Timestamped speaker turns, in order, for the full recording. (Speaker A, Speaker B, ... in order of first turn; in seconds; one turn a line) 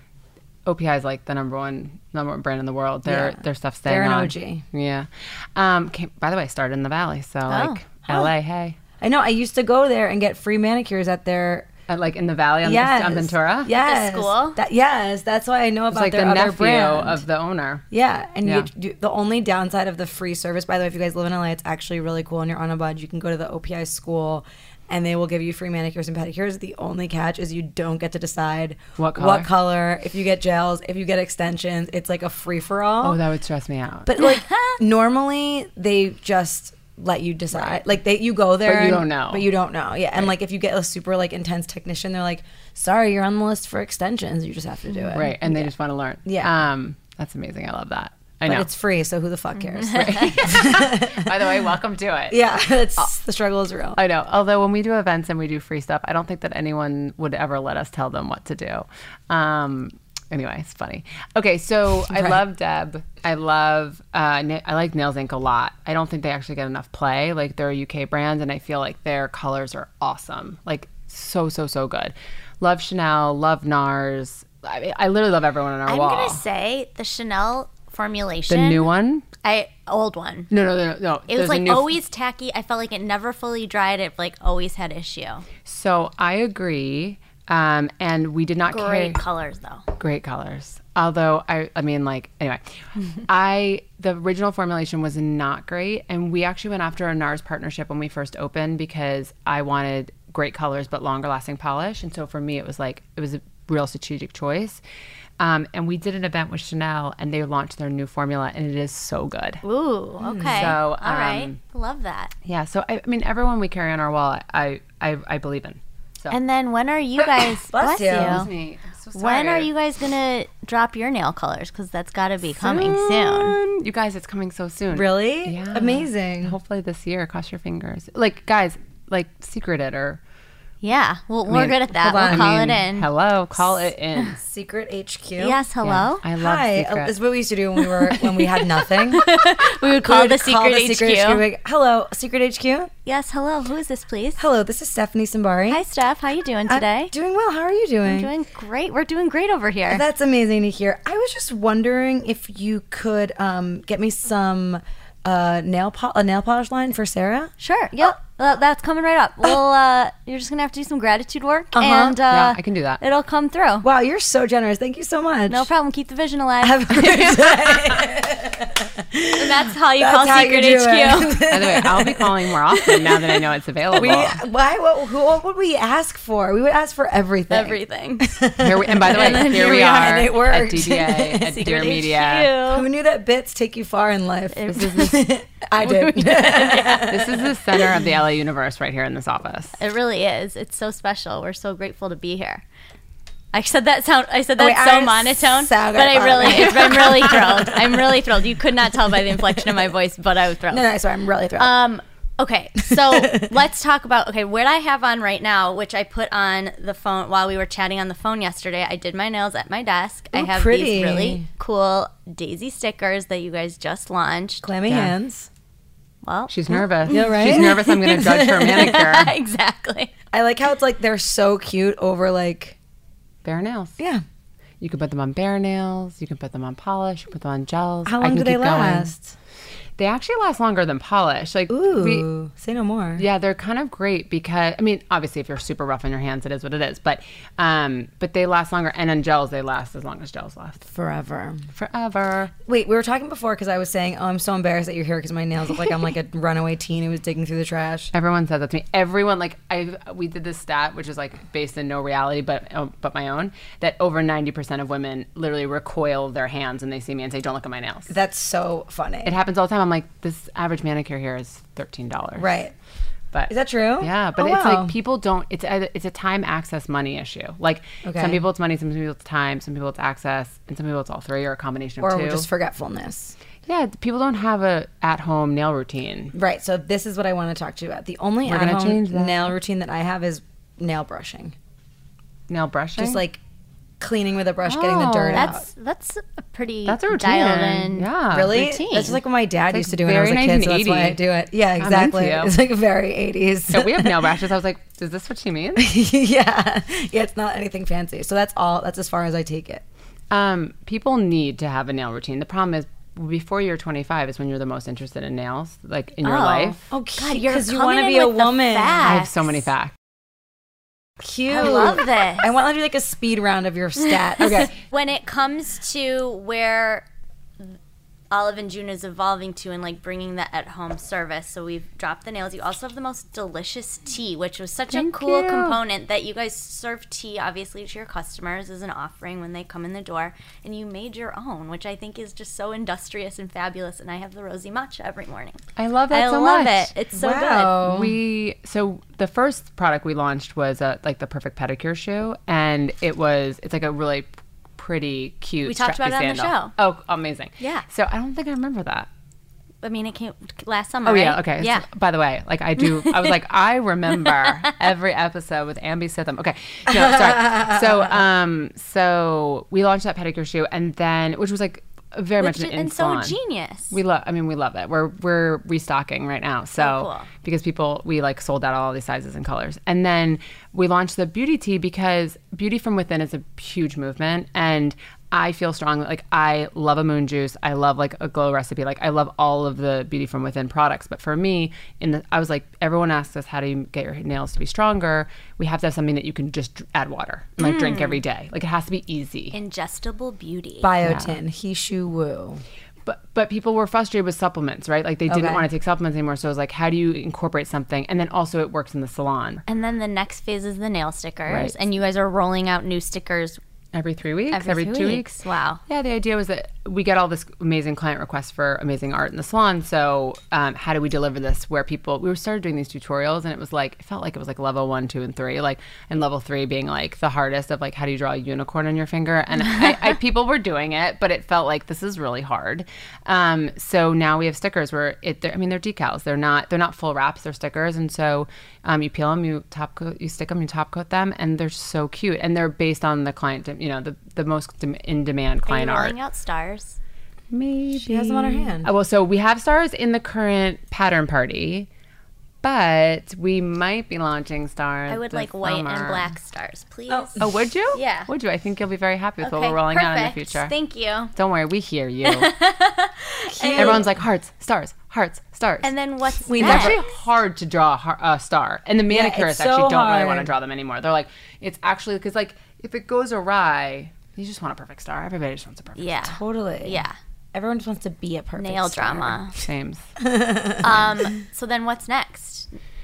Speaker A: 0.7-8.8
Speaker B: 3.0-4.6
Speaker C: 7.5-7.8
Speaker B: 9.0-11.7
Speaker A: 11.9-13.7
Speaker B: 12.6-17.2
Speaker C: 13.7-14.6
Speaker A: 15.9-17.8
Speaker B: 17.9-33.2
Speaker A: 18.4-18.7
Speaker A: 29.0-29.5
Speaker A: 33.0-34.1
Speaker B: 34.0-45.7
Speaker C: 34.2-34.8
Speaker A: 37.5-37.8
Speaker A: 38.6-39.5
Speaker A: 45.1-48.7
Speaker B: 46.2-46.5
Speaker B: 48.4-51.5
Speaker A: 49.9-53.1
Speaker B: 52.3-54.0
Speaker A: 54.0-76.4
Speaker B: 62.1-62.4
Speaker C: 75.9-78.8
Speaker A: 78.5-79.2
Speaker C: 79.4-80.5
Speaker A: 80.5-82.0
Speaker C: 81.3-85.5
Speaker A: 85.6-89.2
Speaker C: 88.7-89.8
Speaker A: 90.0-104.8
Speaker A: 105.4-109.6
Speaker C: 109.6-112.3
Speaker B: 110.2-110.7
Speaker A: 110.5-111.6
Speaker A: 112.4-116.4
Speaker C: 116.3-118.5
Speaker B: 117.7-118.4
Speaker A: 118.1-119.7
Speaker C: 119.1-123.6
Speaker A: 122.5-130.2
Speaker B: 124.9-126.6
Speaker C: 130.8-133.1
Speaker A: 131.4-134.4
Speaker B: 131.9-132.6
Speaker B: 134.4-135.6
Speaker C: 135.4-136.2
Speaker A: 135.8-137.1
Speaker B: 136.3-142.9
Speaker C: 139.1-141.4
Speaker C: 143.1-144.5
Speaker B: 144.4-145.8
Speaker C: 145.7-147.1
Speaker B: 146.7-148.3
Speaker C: 148.0-150.0
Speaker B: 149.9-157.5
Speaker C: 157.6-163.8
Speaker B: 161.8-162.2
Speaker A: 162.1-163.0
Speaker B: 163.8-165.7
Speaker C: 165.5-166.9
Speaker B: 166.6-172.9
Speaker A: 167.0-168.1
Speaker C: 169.4-171.5
Speaker A: 171.5-174.4
Speaker C: 172.9-173.3
Speaker B: 173.9-181.6
Speaker C: 177.5-178.4
Speaker A: 178.6-182.5
Speaker C: 179.0-180.2
Speaker C: 181.5-182.9
Speaker B: 182.7-187.4
Speaker C: 184.5-187.4
Speaker A: 184.7-185.1
Speaker A: 187.1-189.8
Speaker C: 189.8-192.6
Speaker C: 193.5-200.9
Speaker B: 194.6-198.1
Speaker B: 200.7-201.8
Speaker C: 201.6-214.6
Speaker B: 202.8-203.5
Speaker B: 210.3-211.5
Speaker B: 214.6-215.5
Speaker A: 214.8-215.1
Speaker C: 216.2-220.1
Speaker A: 216.5-219.3
Speaker B: 217.1-219.1
Speaker B: 220.3-222.8
Speaker A: 223.4-224.0
Speaker B: 224.0-224.2
Speaker A: 224.8-229.1
Speaker B: 228.1-229.3
Speaker A: 230.0-232.3
Speaker B: 231.7-233.2
Speaker A: 233.2-240.8
Speaker B: 240.9-241.7
Speaker A: 241.7-242.5
Speaker B: 242.6-248.1
Speaker A: 248.1-258.1
Speaker B: 258.1-259.3
Speaker A: 259.2-262.5
Speaker B: 262.4-262.7
Speaker A: 263.3-272.5
Speaker B: 263.5-264.9
Speaker B: 268.0-268.4
Speaker B: 272.0-273.4
Speaker A: 273.6-276.3
Speaker B: 276.3-281.5
Speaker A: 278.4-279.5
Speaker A: 282.5-283.2
Speaker B: 283.0-283.4
Speaker B: 284.0-285.6
Speaker A: 284.6-285.5
Speaker C: 285.3-289.2
Speaker A: 286.8-288.7
Speaker B: 288.3-294.2
Speaker A: 289.7-291.2
Speaker A: 291.8-292.5
Speaker A: 293.7-295.9
Speaker B: 295.8-299.8
Speaker A: 300.3-306.9
Speaker C: 306.2-309.5
Speaker B: 306.9-309.2
Speaker A: 309.0-309.9
Speaker B: 311.2-314.7
Speaker C: 311.5-312.5
Speaker C: 314.4-317.0
Speaker A: 314.4-314.7
Speaker C: 318.3-337.9
Speaker A: 324.9-325.8
Speaker A: 335.8-336.9
Speaker B: 337.1-338.1
Speaker A: 337.8-349.1
Speaker C: 345.6-346.7
Speaker C: 347.6-347.8
Speaker C: 349.8-351.9
Speaker A: 351.0-363.4
Speaker C: 352.8-353.4
Speaker C: 354.2-354.8
Speaker C: 362.4-363.9
Speaker A: 363.9-389.6
Speaker C: 366.8-367.3
Speaker C: 387.6-388.2
Speaker C: 389.5-390.9
Speaker B: 390.8-392.6
Speaker A: 391.0-391.4
Speaker A: 393.0-399.6
Speaker B: 395.3-395.6
Speaker C: 399.7-403.6
Speaker A: 401.5-401.7
Speaker A: 403.9-405.3
Speaker C: 404.5-405.8
Speaker A: 405.9-436.1
Speaker C: 435.7-437.0
Speaker A: 437.5-441.9
Speaker B: 437.9-438.9
Speaker A: 442.6-446.3
Speaker C: 445.1-447.4
Speaker B: 447.1-447.4
Speaker A: 447.4-450.7
Speaker C: 447.9-448.3
Speaker C: 449.4-451.3
Speaker A: 451.3-452.5
Speaker C: 452.2-454.0
Speaker B: 453.5-454.1
Speaker A: 453.8-455.9
Speaker C: 455.8-457.0
Speaker B: 456.4-457.0
Speaker A: 456.6-466.2
Speaker B: 459.1-460.5
Speaker C: 466.0-467.1
Speaker B: 466.2-469.4
Speaker C: 468.6-469.5
Speaker A: 469.6-470.1
Speaker B: 470.2-470.9
Speaker C: 470.8-472.7
Speaker A: 470.8-471.1